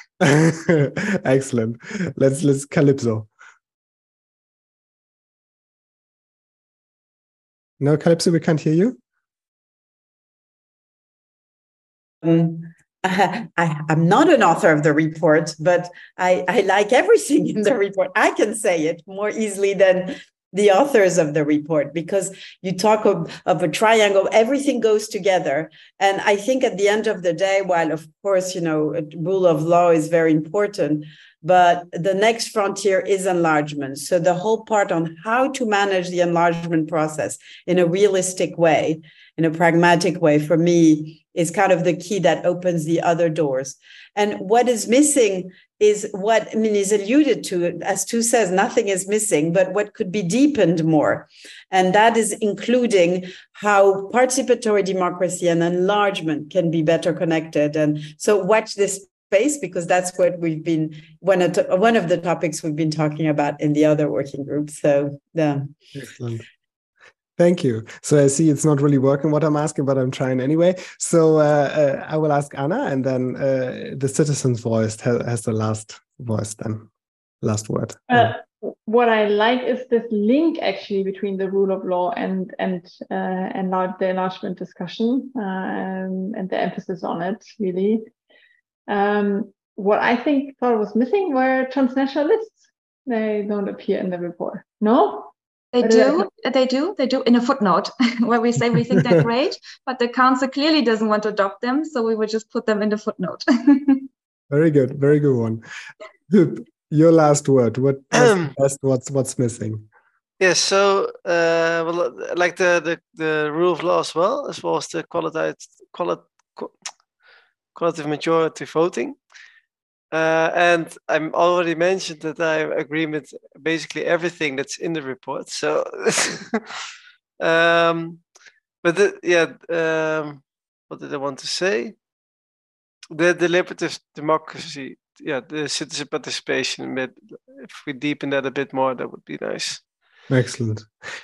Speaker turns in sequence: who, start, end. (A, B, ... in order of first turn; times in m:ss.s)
0:00.2-0:03.3 A
0:07.8-0:09.0 A
0:12.2-1:05.7 B
1:06.0-1:06.4 A
1:07.4-1:16.9 A
1:17.4-1:18.3 A
1:18.1-1:28.1 C
1:28.9-1:36.3 C
1:35.7-1:44.1 D
1:44.5-1:45.6 A
1:46.3-1:49.9 A
1:48.2-1:48.5 E
1:50.4-1:56.8 E
1:57.8-1:59.2 E
2:00.1-2:06.6 E
2:07.4-2:08.2 E
2:08.8-2:12.0 E
2:13.1-2:19.8 E
2:20.3-2:20.9 A